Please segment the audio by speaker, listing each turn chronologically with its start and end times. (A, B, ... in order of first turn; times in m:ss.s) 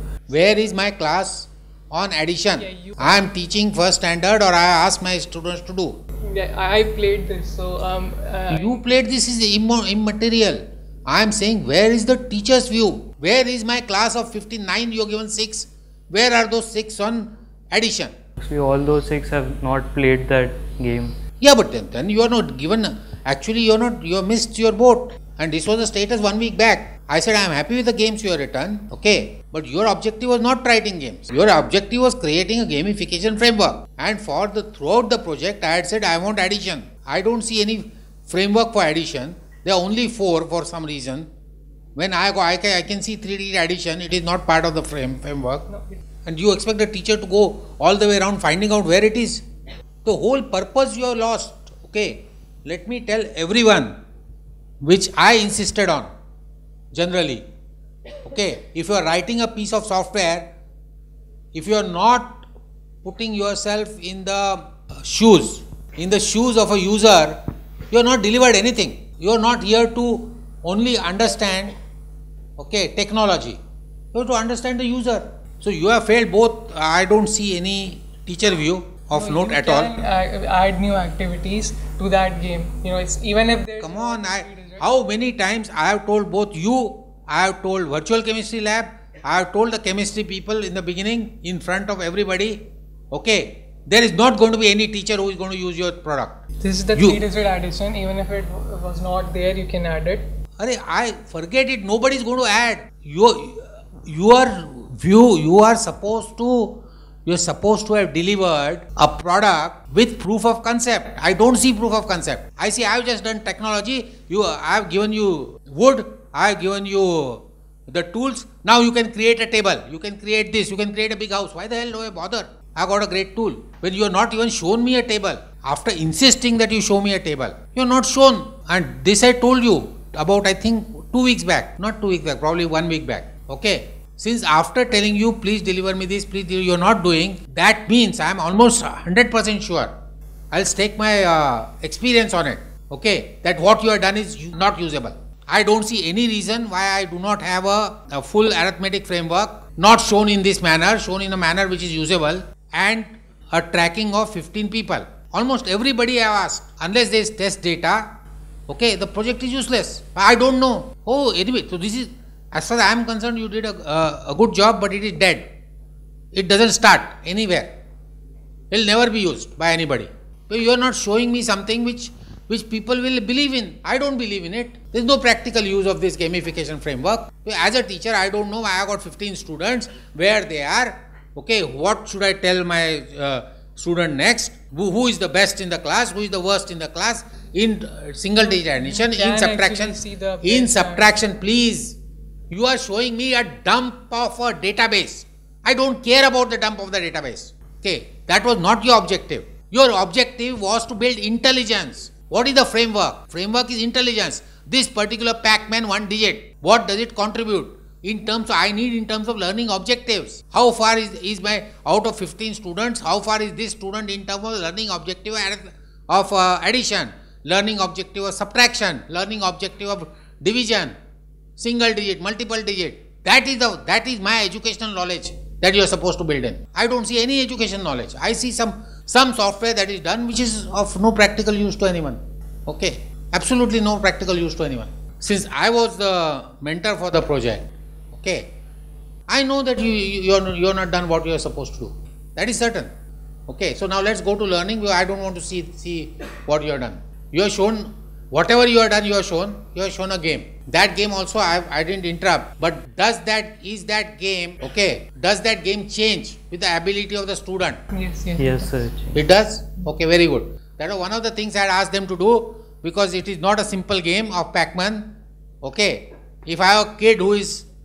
0:00.3-0:06.0 A
0:02.6-0:03.3 B
0:06.2-0:08.8 B
0:08.5-0:18.1 A
0:18.4-0:21.1 C
0:21.4-0:41.3 A
0:42.0-0:45.7 A
0:45.7-0:46.0 B
0:46.3-0:49.4 A
0:50.0-0:54.0 A
0:54.8-0:56.1 A
0:56.9-0:57.4 A
0:58.3-1:00.5 A
1:01.5-1:02.4 A
1:03.0-1:07.4 A
1:07.9-1:11.8 A
1:12.6-1:13.6 A
1:14.1-1:19.9 A
1:19.1-1:24.9 B
1:23.8-1:36.4 A
1:36.6-1:40.2 B
1:37.0-1:37.2 A
1:40.6-2:19.9 A
2:20.5-2:38.1 A
2:38.7-2:45.5 A
2:46.3-2:47.7 A
2:48.7-3:12.0 A
3:08.5-3:11.1 B
3:12.5-3:40.9 A
3:41.6-3:58.5 A
3:59.3-4:02.9 A
4:03.5-4:17.8 A
4:17.9-4:18.7 B
4:18.4-4:19.2 C
4:19.2-4:25.1 A
4:25.6-4:27.7 A